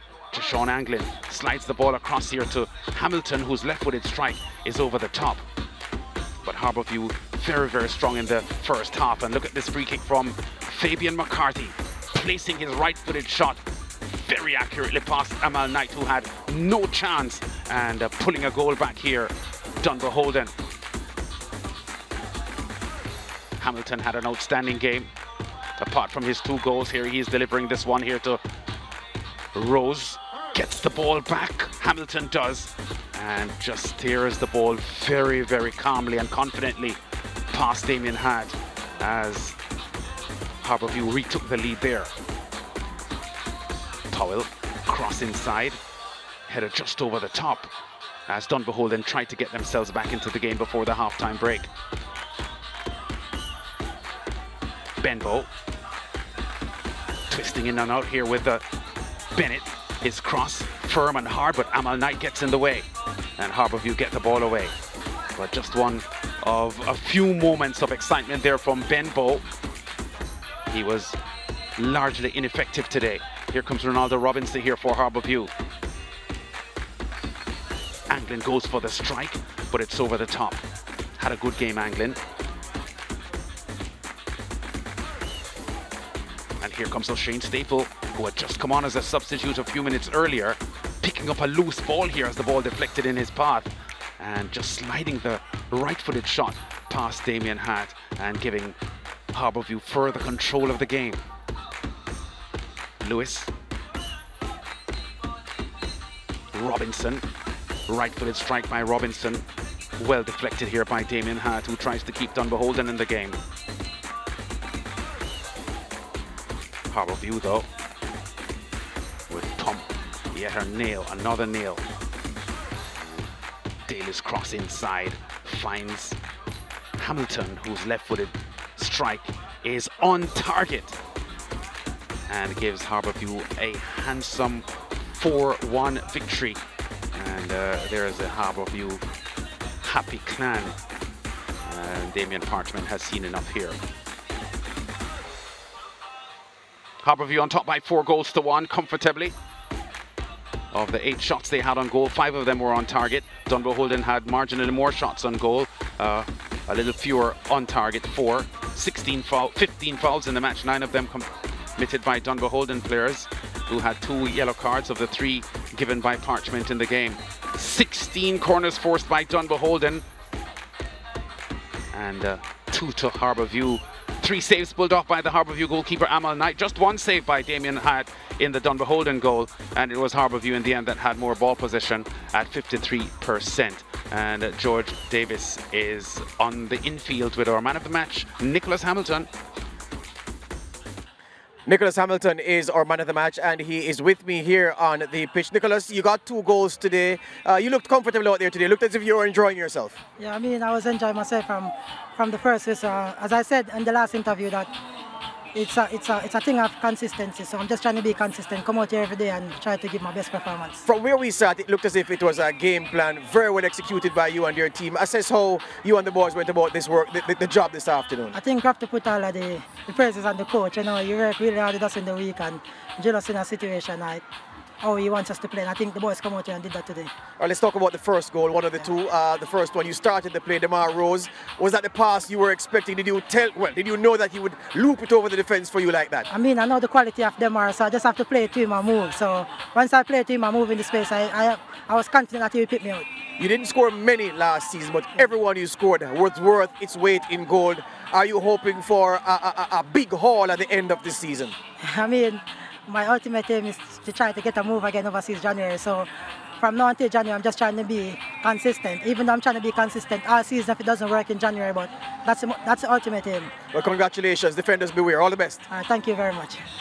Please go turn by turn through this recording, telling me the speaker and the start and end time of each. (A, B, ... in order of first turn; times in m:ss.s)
0:00.3-0:05.5 A
0:06.4-0:20.5 A
0:23.6-0:25.1 A
0:25.8-0:28.4 A
0:29.6-0:37.0 A
0:37.5-0:39.6 A
0:40.6-0:42.1 A
0:44.1-0:45.8 A
0:46.5-0:47.7 A
0:48.3-0:51.7 A
0:55.0-0:55.5 A
0:57.3-0:58.6 A
0:59.3-1:04.8 A
1:05.4-1:09.4 A
1:10.7-1:11.2 A
1:11.8-1:15.5 A
1:18.1-1:20.6 A
1:21.2-1:22.2 A
1:26.6-1:38.8 A
1:39.3-1:41.2 A
1:43.0-1:43.5 A
1:46.5-1:47.2 A
1:47.9-1:49.4 A
1:50.0-1:53.4 A
1:56.9-1:57.7 A
1:59.3-2:01.8 A
2:03.0-2:03.3 A
2:03.9-2:06.2 A
2:07.0-2:11.0 A
2:12.3-2:16.6 A
2:17.1-2:19.0 A
2:19.8-2:20.8 A
2:21.6-2:23.8 A
2:27.0-2:29.4 A
2:30.7-2:50.0 A
2:51.9-3:09.3 A
3:11.7-3:20.0 B
3:20.2-3:24.7 C
3:25.5-3:30.8 C
3:30.8-3:38.4 B
3:38.3-3:44.2 C
3:44.8-3:47.1 C
3:47.4-3:56.3 B
3:56.3-4:03.1 C
4:03.4-4:11.6 B
4:11.8-4:23.5 C
4:23.7-4:25.6 B
4:25.7-4:26.6 C